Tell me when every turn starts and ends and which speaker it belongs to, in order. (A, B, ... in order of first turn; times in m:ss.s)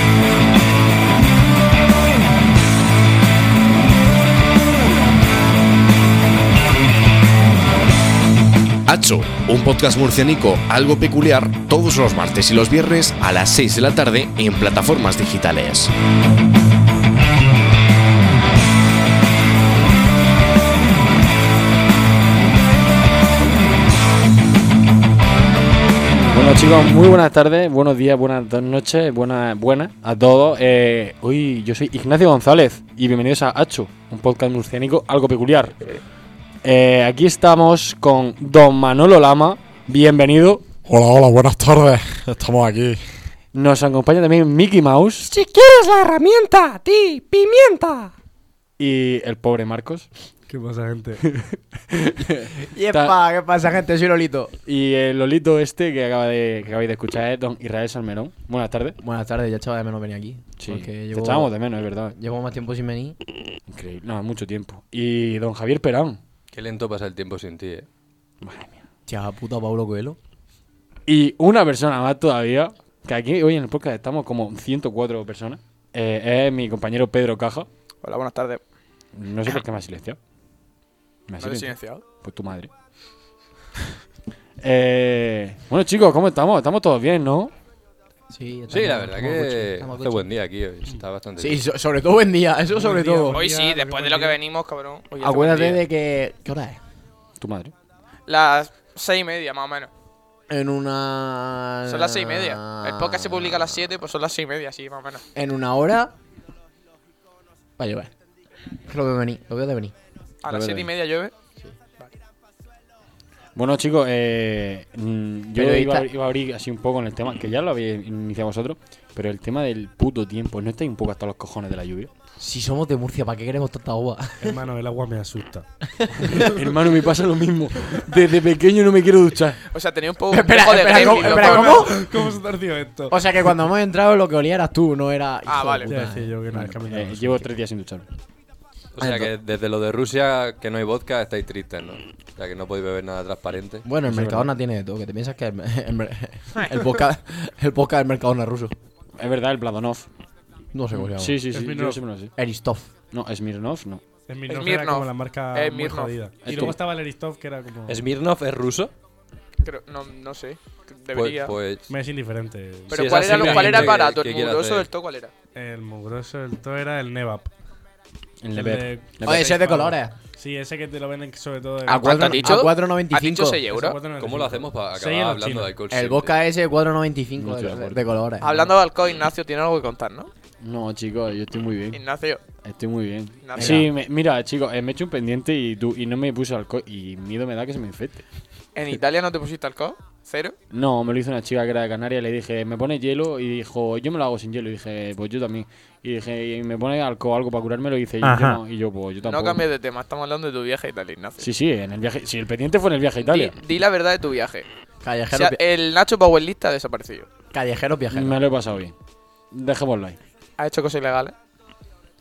0:08.9-0:15.9 A
0:26.2-0:35.7 B
0:36.6-0:40.6 B
0:40.8-0:43.0 C
0:43.5-0:45.3 B
0:45.2-0:48.1 D
0:48.8-0:50.1 B
0:50.5-0:51.2 E
0:51.3-0:53.2 B
0:52.6-0:54.5 D
0:54.6-0:59.0 B
0:59.0-1:01.5 D
1:00.6-1:02.2 B
1:02.1-1:03.2 D
1:03.7-1:06.2 B
1:06.5-1:07.9 F
1:08.4-1:08.8 B
1:09.1-1:10.2 D
1:11.1-1:17.7 B
1:18.0-1:18.6 G
1:19.2-1:20.2 B
1:21.3-1:22.7 B
1:21.4-1:22.0 G
1:24.6-1:27.5 B
1:28.3-1:30.3 D
1:28.7-1:31.6 F
1:31.4-1:33.4 D
1:32.7-1:34.4 E
1:33.3-1:35.8 G
1:35.2-1:36.8 D
1:37.4-1:37.7 B
1:38.3-1:39.9 G
1:40.5-1:43.8 D
1:41.8-1:45.2 G
1:45.3-1:46.1 D
1:47.8-1:48.1 D
1:48.8-1:49.9 D
1:50.4-1:51.3 G
1:50.5-1:50.9 D
1:53.6-2:02.1 B
1:55.5-1:56.1 D
2:02.4-2:04.6 D
2:04.4-2:05.6 E
2:06.0-2:06.4 D
2:06.3-2:08.4 B
2:07.9-2:09.6 D
2:09.7-2:11.9 G
2:10.3-2:12.1 D
2:11.0-2:13.2 E
2:13.1-2:16.4 D
2:15.4-2:15.9 G
2:15.9-2:17.4 E
2:16.5-2:18.0 B
2:18.9-2:23.9 F
2:19.0-2:19.3 D
2:23.8-2:28.7 D
2:24.0-2:24.5 B
2:29.2-2:30.1 B
2:30.7-2:31.4 D
2:30.9-2:32.3 B
2:31.5-2:32.0 E
2:32.4-2:32.9 D
2:33.1-2:34.0 B
2:34.3-2:38.0 E
2:34.5-2:36.2 G
2:36.4-2:36.8 B
2:37.9-2:38.9 F
2:39.6-2:41.6 G
2:41.1-2:41.9 F
2:41.9-2:43.9 E
2:42.9-2:44.9 F
2:42.9-2:45.3 G
2:45.5-2:47.5 E
2:48.4-2:49.5 B
2:48.5-2:52.6 E
2:49.2-2:50.1 D
2:51.8-2:53.6 D
2:51.8-2:54.0 G
2:53.7-2:55.7 E
2:54.1-2:56.4 F
2:55.9-2:58.5 D
2:57.4-2:58.1 B
2:58.4-3:00.3 G
3:00.6-3:02.0 B
3:01.9-3:02.4 G
3:02.6-3:08.2 B
3:03.4-3:03.8 G
3:03.6-3:03.9 D
3:08.7-3:10.6 G
3:10.7-3:19.6 B
3:18.2-3:18.6 E
3:19.2-3:21.5 G
3:21.4-3:23.6 B
3:23.2-3:24.7 G
3:25.0-3:25.6 D
3:25.3-3:27.3 G
3:27.5-3:28.4 D
3:28.1-3:28.9 B
3:29.5-3:30.2 B
3:30.6-3:31.3 G